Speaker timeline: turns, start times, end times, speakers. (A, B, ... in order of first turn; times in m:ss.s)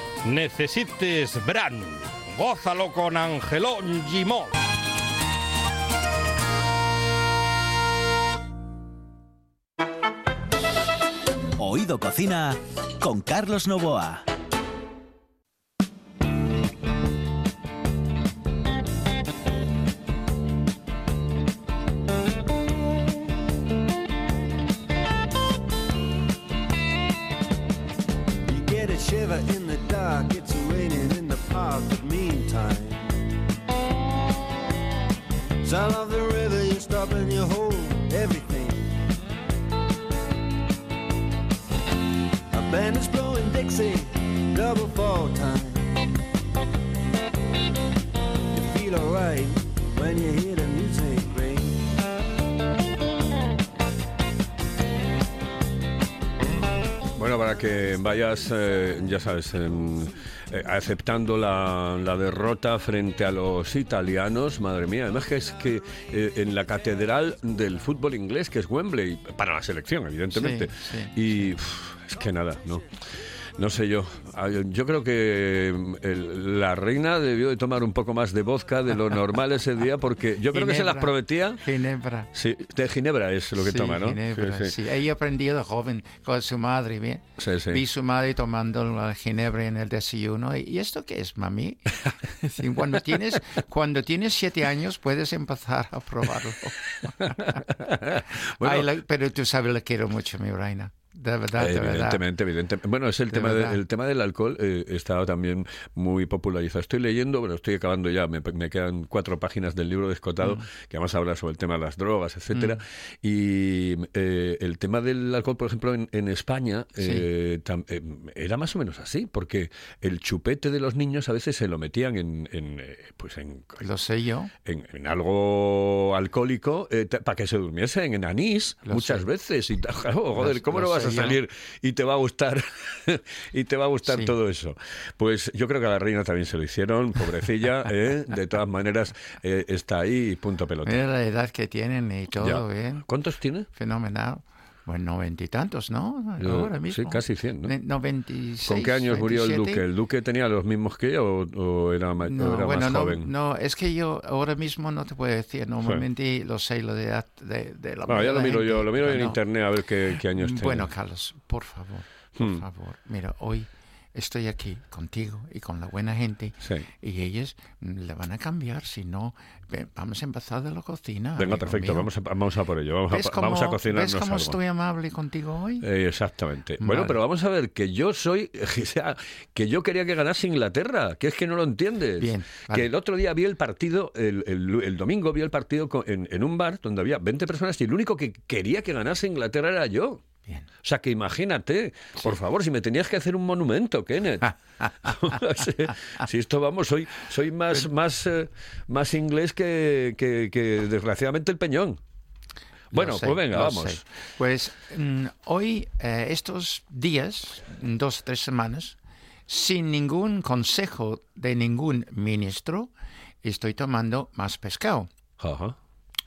0:00.2-0:04.5 A
0:11.6-0:14.2 B
0:28.4-0:33.0 C
0:35.6-0:39.0 C
0:42.5-0:45.9 C
0:48.5-0:51.9 C
0:57.1-1:12.8 D
1:10.3-1:11.1 E
1:13.5-1:21.6 D
1:20.5-1:22.3 E
1:22.3-1:24.7 D
1:23.6-1:37.6 E
1:27.4-1:27.8 D
1:37.4-1:38.9 D
1:38.6-1:42.2 E
1:41.6-2:03.8 D
1:43.3-1:43.8 E
1:52.5-1:52.8 E
1:57.0-1:57.2 E
2:03.8-2:04.5 E
2:04.6-2:21.0 D
2:08.9-2:09.2 E
2:10.4-2:11.4 E
2:14.0-2:14.3 E
2:20.8-2:23.0 E
2:22.4-2:23.7 D
2:23.7-2:29.8 E
2:26.4-2:27.7 D
2:28.7-2:33.3 D
2:32.2-2:39.4 E
2:38.1-2:40.9 D
2:40.3-2:52.1 E
2:51.4-2:54.6 D
2:53.1-2:55.8 E
2:55.8-3:10.2 D
2:56.8-2:57.2 E
3:02.2-3:02.9 E
3:10.8-3:22.0 D
3:22.9-3:29.0 E
3:22.9-3:24.0 D
3:29.5-3:32.9 E
3:33.4-3:35.1 E
3:35.4-3:35.8 D